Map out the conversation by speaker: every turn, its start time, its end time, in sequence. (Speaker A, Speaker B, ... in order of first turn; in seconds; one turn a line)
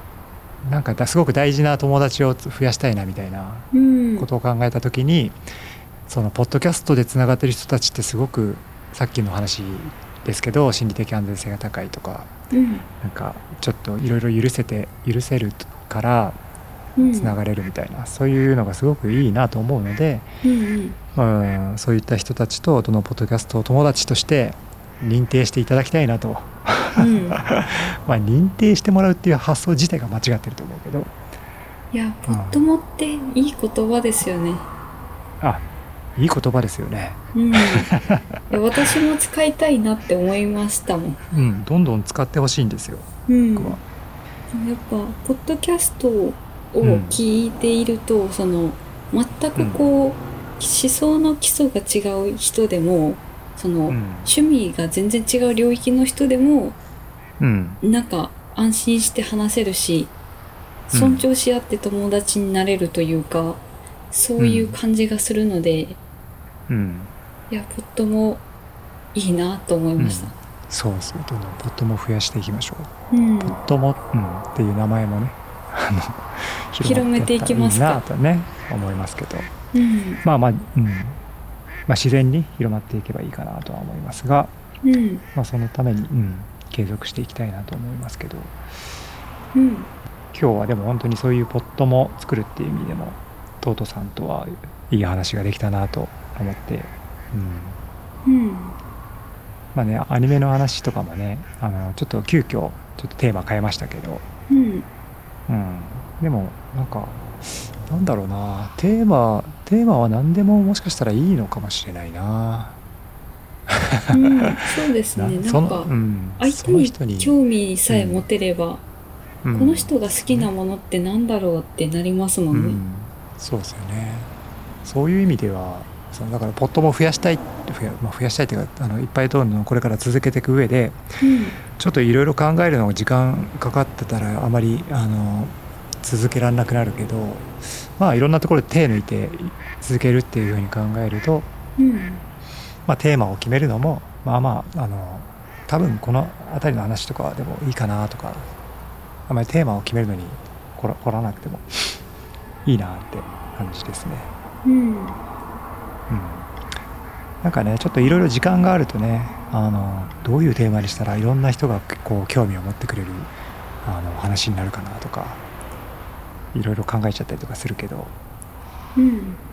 Speaker A: 0.6-5.4
Speaker B: 3.7-4.3
Speaker A: 6.1-12.3
Speaker B: 12.5-12.8
Speaker A: 13.0-16.4
Speaker B: 17.0-17.4
Speaker A: 17.0-20.3
Speaker B: 20.4-21.0
Speaker A: 21.1-31.1
Speaker B: 27.0-27.4
Speaker B: 31.9-34.6
Speaker A: 32.3-32.6
Speaker A: 36.1-38.4
Speaker B: 37.3-37.9
Speaker B: 38.5-41.2
Speaker A: 41.3-43.8
Speaker B: 43.3-43.8
Speaker B: 44.5-56.8
Speaker A: 46.8-47.2
Speaker A: 49.5-49.9
Speaker A: 53.9-54.3
Speaker A: 57.4-57.8
Speaker B: 57.8-60.1
Speaker A: 60.9-61.3
Speaker B: 60.9-66.0
Speaker A: 64.4-64.8
Speaker A: 66.7-67.1
Speaker B: 67.5-68.4
Speaker B: 69.1-70.3
Speaker A: 70.0-72.9
Speaker B: 73.1-73.6
Speaker A: 73.5-79.5
Speaker B: 76.8-78.0
Speaker B: 79.7-80.2
Speaker A: 80.2-81.2
Speaker A: 81.9-84.5
Speaker B: 84.8-85.2
Speaker A: 85.3-88.5
Speaker B: 89.5-89.9
Speaker A: 90.3-97.8
Speaker B: 98.2-98.8
Speaker A: 99.7-104.2
Speaker B: 104.5-104.9
Speaker A: 105.5-112.8
Speaker A: 113.7-114.6
Speaker B: 114.1-118.8
Speaker A: 115.1-117.3
Speaker A: 117.9-118.3
Speaker A: 119.4-120.5
Speaker B: 119.5-122.8
Speaker A: 122.5-124.3
Speaker A: 124.8-131.0
Speaker B: 131.2-131.6
Speaker A: 131.7-141.5
Speaker B: 141.8-142.2
Speaker A: 142.9-148.5
Speaker A: 149.3-152.0
Speaker A: 152.6-154.3
Speaker B: 154.6-155.2
Speaker A: 156.1-156.5
Speaker A: 157.4-165.4
Speaker A: 166.5-168.1
Speaker B: 168.9-169.4